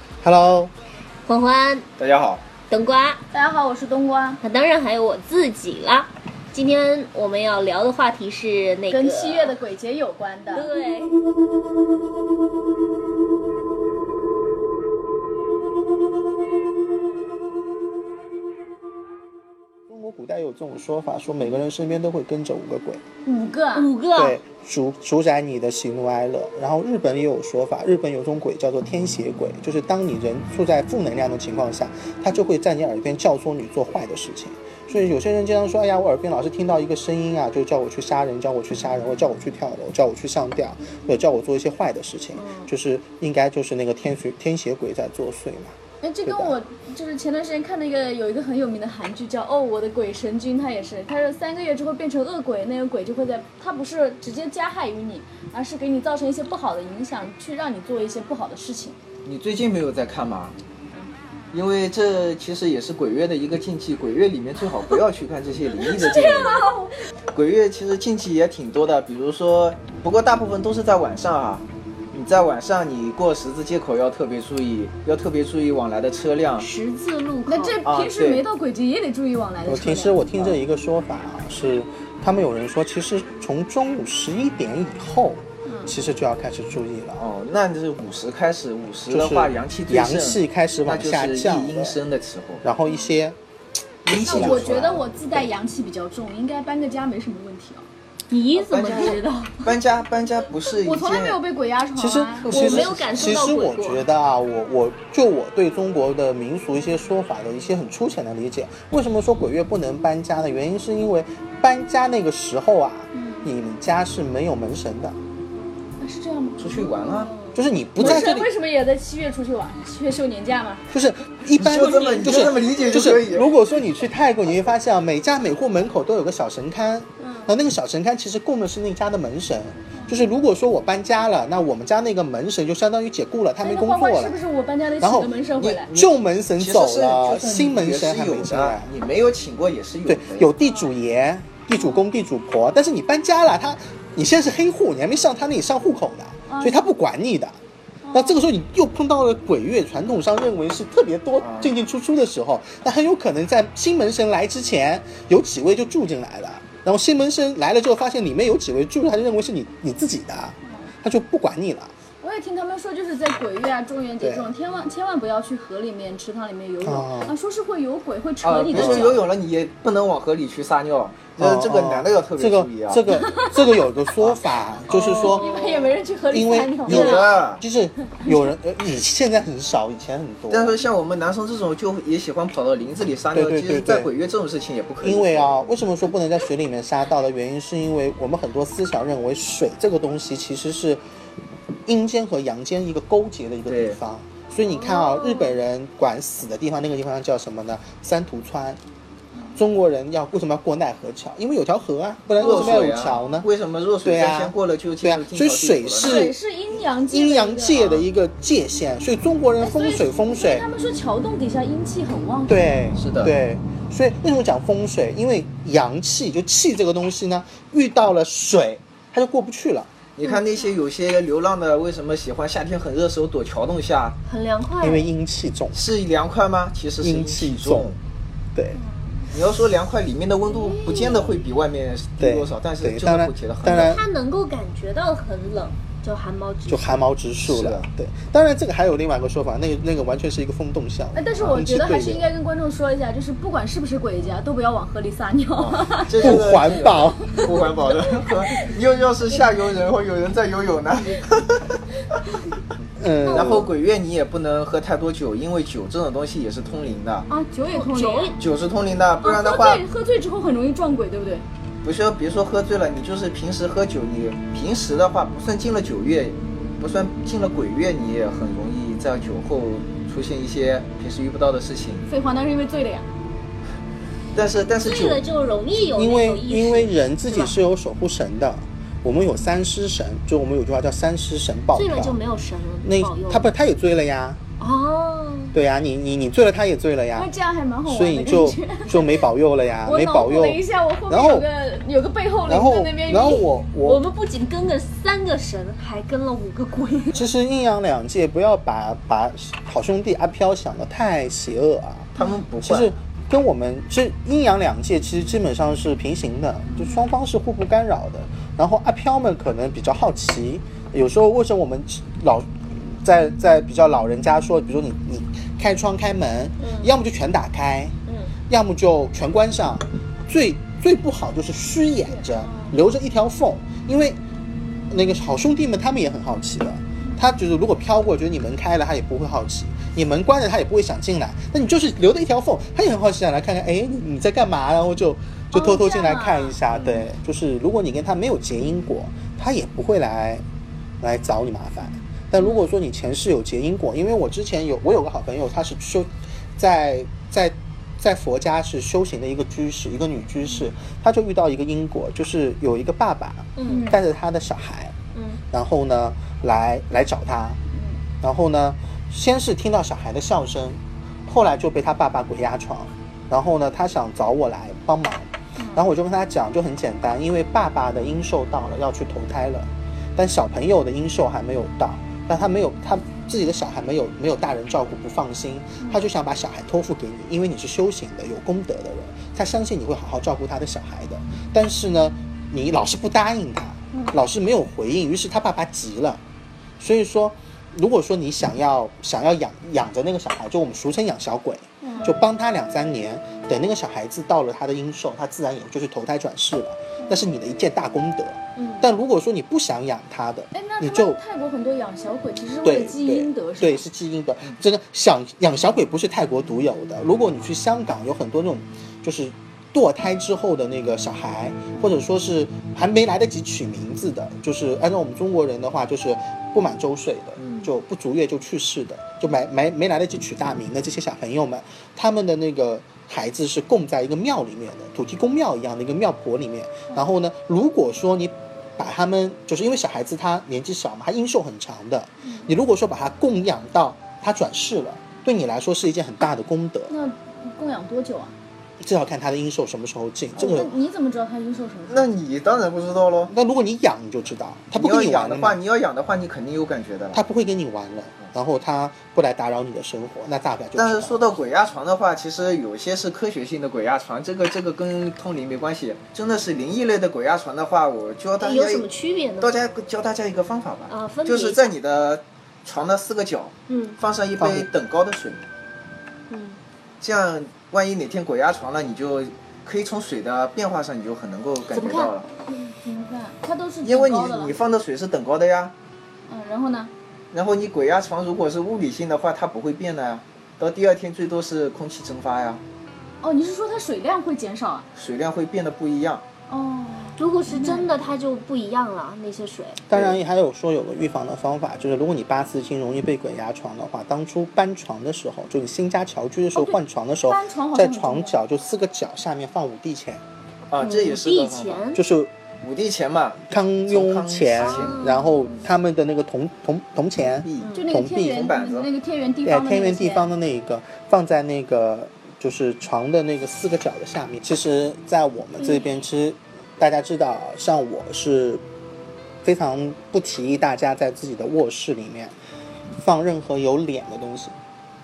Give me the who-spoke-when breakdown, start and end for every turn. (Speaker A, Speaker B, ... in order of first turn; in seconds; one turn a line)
Speaker A: 0.2-0.7
Speaker B: 1.2-1.9
Speaker C: 2.0-2.4
Speaker B: 2.7-3.2
Speaker D: 3.3-4.4
Speaker B: 4.4-9.6
Speaker D: 8.9-10.7
Speaker B: 10.5-11.2
Speaker A: 19.9-23.0
Speaker D: 23.2-23.9
Speaker B: 23.7-24.4
Speaker A: 24.2-46.6
Speaker B: 42.4-42.7
Speaker D: 46.0-59.0
Speaker C: 59.2-60.6
Speaker C: 61.5-66.7
Speaker D: 65.8-66.9
Speaker C: 67.3-76.7
Speaker B: 76.6-77.8
Speaker D: 77.5-80.5
Speaker C: 77.8-78.4
Speaker A: 79.6-87.2
Speaker D: 85.6-85.9
Speaker C: 87.2-92.6
Speaker A: 89.1-92.0
Speaker A: 92.6-93.4
Speaker A: 94.0-94.7
Speaker C: 94.0-95.1
Speaker D: 94.1-97.9
Speaker B: 98.3-99.5
Speaker C: 98.5-101.4
Speaker D: 98.7-99.4
Speaker D: 100.8-102.5
Speaker A: 102.0-115.2
Speaker C: 102.4-103.3
Speaker B: 102.5-104.0
Speaker D: 113.1-113.5
Speaker D: 116.0-117.3
Speaker C: 116.6-117.3
Speaker B: 117.2-117.6
Speaker A: 117.5-118.5
Speaker C: 118.0-118.3
Speaker D: 118.0-120.8
Speaker A: 120.9-134.4
Speaker C: 121.6-123.5
Speaker D: 127.2-127.5
Speaker D: 133.6-135.9
Speaker A: 135.0-135.4
Speaker C: 135.6-140.5
Speaker A: 135.9-138.9
Speaker A: 140.1-147.5
Speaker D: 141.7-142.0
Speaker D: 146.5-146.9
Speaker D: 148.1-148.3
Speaker A: 148.1-161.9
Speaker C: 151.4-151.7
Speaker D: 162.2-169.3
Speaker A: 164.2-164.5
Speaker A: 166.8-167.3
Speaker C: 168.4-173.0
Speaker A: 168.7-169.2
Speaker A: 171.4-175.5
Speaker D: 173.1-173.5
Speaker C: 174.2-175.6
Speaker D: 174.9-177.3
Speaker A: 176.3-180.8
Speaker C: 176.9-177.6
Speaker B: 176.9-177.3
Speaker C: 180.5-185.8
Speaker A: 183.3-184.1
Speaker A: 185.0-191.0
Speaker A: 191.8-198.8
Speaker C: 193.7-194.0
Speaker B: 194.7-195.6
Speaker A: 199.6-203.5
Speaker C: 202.4-206.2
Speaker A: 204.0-206.3
Speaker D: 206.0-208.0
Speaker A: 207.0-210.7
Speaker D: 209.6-212.9
Speaker A: 212.5-219.9
Speaker C: 213.0-213.3
Speaker C: 220.1-224.2
Speaker D: 220.2-220.7
Speaker B: 224.2-225.1
Speaker A: 224.8-225.8
Speaker C: 225.7-228.0
Speaker A: 227.0-227.9
Speaker D: 228.8-229.3
Speaker C: 229.3-234.0
Speaker B: 230.4-231.5
Speaker A: 232.2-234.0
Speaker B: 233.7-237.0
Speaker A: 236.7-242.3
Speaker C: 237.4-237.9
Speaker D: 241.1-247.4
Speaker C: 245.6-251.8
Speaker A: 246.2-247.4
Speaker A: 253.0-253.7
Speaker B: 253.3-253.7
Speaker C: 253.3-257.3
Speaker D: 257.3-258.4
Speaker B: 257.7-258.4
Speaker C: 258.4-259.8
Speaker D: 259.2-261.4
Speaker C: 261.8-272.0
Speaker D: 272.1-273.1
Speaker C: 274.3-275.2
Speaker B: 274.8-277.5
Speaker A: 275.9-282.2
Speaker B: 281.7-283.5
Speaker A: 282.8-284.4
Speaker B: 284.6-285.5
Speaker A: 285.5-287.3
Speaker D: 287.1-289.1
Speaker A: 287.9-291.4
Speaker D: 289.8-293.5
Speaker A: 292.5-294.1
Speaker B: 293.8-297.2
Speaker A: 297.1-302.1
Speaker C: 302.1-302.9
Speaker A: 302.6-317.9
Speaker B: 316.6-316.9
Speaker B: 318.1-318.3
Speaker A: 318.5-324.2
Speaker B: 322.4-322.8
Speaker A: 324.9-340.4
Speaker D: 335.5-336.6
Speaker A: 341.0-354.9
Speaker B: 353.6-353.9
Speaker D: 353.7-354.0
Speaker B: 355.1-355.4
Speaker A: 355.5-357.6
Speaker D: 357.7-358.0
Speaker A: 358.2-386.2
Speaker D: 365.6-365.8
Speaker D: 383.9-384.2
Speaker A: 386.8-401.2
Speaker D: 391.8-392.2
Speaker B: 398.6-398.9
Speaker D: 400.5-403.8
Speaker A: 402.6-436.9
Speaker C: 417.4-417.7
Speaker D: 436.9-438.3
Speaker A: 438.8-440.7
Speaker C: 440.4-440.7
Speaker D: 440.4-442.1
Speaker C: 441.9-443.3
Speaker A: 443.3-445.6
Speaker C: 444.7-447.2
Speaker A: 447.1-451.2
Speaker C: 450.8-458.9
Speaker B: 458.4-459.5
Speaker C: 459.4-465.4
Speaker B: 460.9-461.7
Speaker B: 463.7-464.0
Speaker A: 464.4-464.7
Speaker B: 466.3-466.6
Speaker C: 467.0-472.3
Speaker B: 471.6-472.1
Speaker D: 472.5-474.6
Speaker C: 473.8-475.7
Speaker D: 476.3-476.9
Speaker C: 477.3-482.6
Speaker D: 483.2-484.9
Speaker C: 484.9-486.2
Speaker D: 486.5-487.9
Speaker B: 487.2-489.8
Speaker A: 489.9-500.2
Speaker C: 489.9-490.2
Speaker D: 496.5-498.4
Speaker C: 500.7-501.8
Speaker B: 500.8-502.0
Speaker A: 501.9-502.3
Speaker C: 502.6-505.7
Speaker A: 503.5-508.5
Speaker B: 504.6-505.4
Speaker C: 507.4-507.8
Speaker B: 507.6-507.9
Speaker D: 507.7-510.3
Speaker C: 508.3-508.9
Speaker A: 509.4-518.6
Speaker B: 515.6-515.9
Speaker A: 519.4-522.3
Speaker A: 523.0-524.5